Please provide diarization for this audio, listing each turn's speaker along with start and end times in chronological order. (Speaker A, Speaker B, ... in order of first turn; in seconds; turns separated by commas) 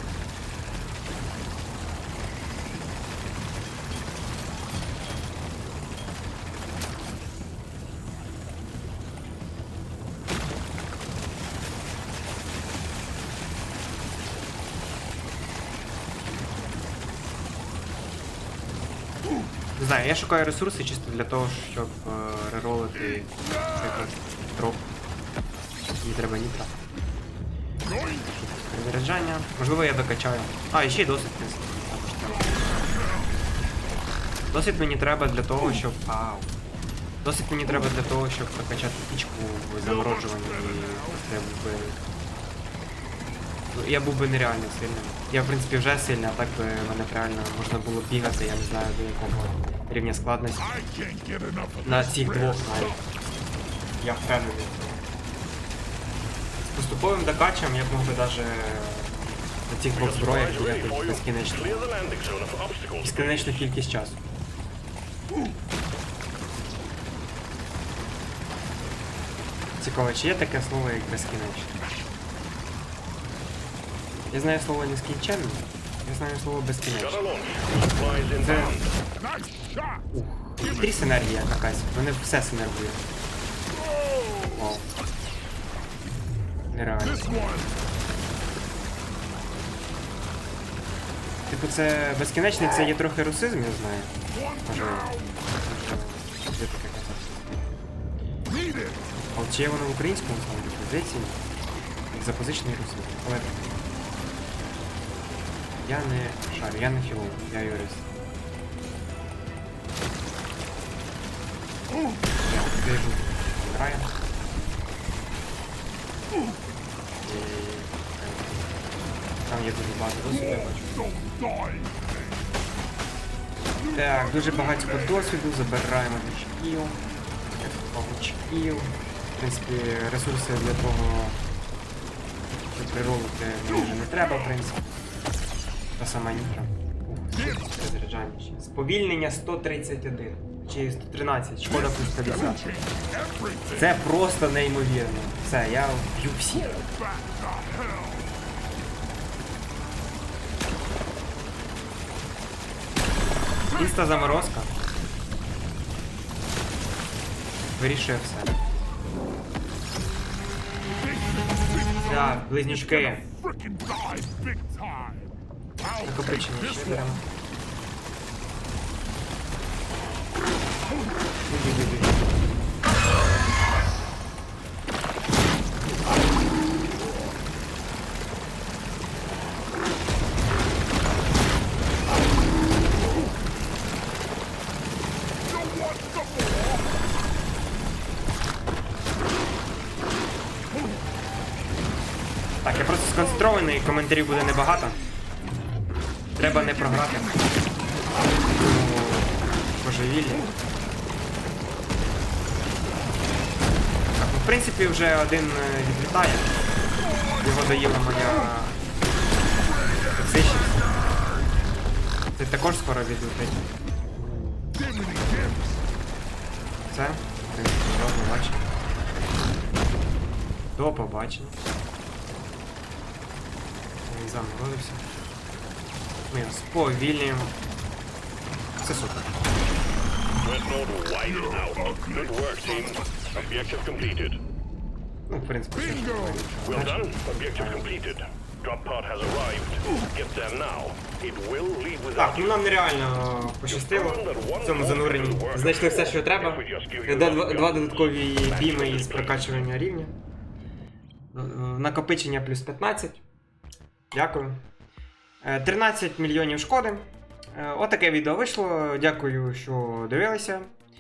Speaker A: 19.8-24.9, Speaker B: 23.2-23.8, Speaker A: 26.0-26.8, Speaker B: 27.9-28.2, Speaker A: 28.1-32.9, Speaker B: 32.3-33.3, Speaker A: 34.5-36.5, Speaker A: 37.2-42.0, Speaker B: 39.8-41.3, Speaker A: 43.7-50.7, Speaker B: 50.6-53.0, Speaker A: 51.8-53.0, Speaker A: 54.0-55.0, Speaker A: 56.7-61.9, Speaker C: 60.0-63.7, Speaker A: 63.0-64.3, Speaker A: 69.8-71.8, Speaker A: 74.3-77.2, Speaker C: 77.0-78.9, Speaker A: 78.0-78.8, Speaker B: 79.2-80.0, Speaker A: 80.1-83.0, Speaker B: 80.6-81.0, Speaker B: 83.7-84.6, Speaker A: 84.5-84.8, Speaker A: 86.7-87.4, Speaker B: 87.0-87.8, Speaker A: 91.5-97.8, Speaker B: 94.3-95.4, Speaker B: 98.5-98.9, Speaker A: 99.0-101.4, Speaker A: 102.1-103.8, Speaker A: 105.8-108.2, Speaker A: 112.4-114.2, Speaker A: 117.2-118.8, Speaker A: 119.4-121.0, Speaker B: 120.3-122.1, Speaker B: 123.9-125.2, Speaker A: 123.9-131.4, Speaker A: 132.5-134.9, Speaker A: 136.0-142.6, Speaker B: 141.7-143.9, Speaker A: 143.7-146.8, Speaker B: 146.5-148.2, Speaker A: 153.7-154.7, Speaker A: 157.8-158.6, Speaker B: 161.0-167.2, Speaker A: 162.0-163.2, Speaker A: 166.0-167.2, Speaker A: 171.4-172.3, Speaker B: 185.7-186.8, Speaker A: 192.6-195.0, Speaker A: 196.4-197.3, Speaker B: 196.4-197.6, Speaker A: 198.5-200.5, Speaker A: 204.2-206.6, Speaker B: 207.2-208.2, Speaker A: 207.4-208.8, Speaker B: 209.6-211.0, Speaker A: 210.1-210.8, Speaker A: 212.3-214.7, Speaker B: 214.8-215.8, Speaker A: 216.9-218.7, Speaker A: 220.8-221.6, Speaker A: 224.0-225.1, Speaker A: 226.3-227.6, Speaker A: 228.8-229.4, Speaker C: 230.4-234.4, Speaker B: 231.2-233.4, Speaker A: 235.3-238.0, Speaker B: 235.8-236.5, Speaker C: 236.6-242.5, Speaker A: 242.2-250.1, Speaker C: 243.7-249.7, Speaker A: 251.3-253.2, Speaker A: 254.1-254.6, Speaker A: 255.4-260.7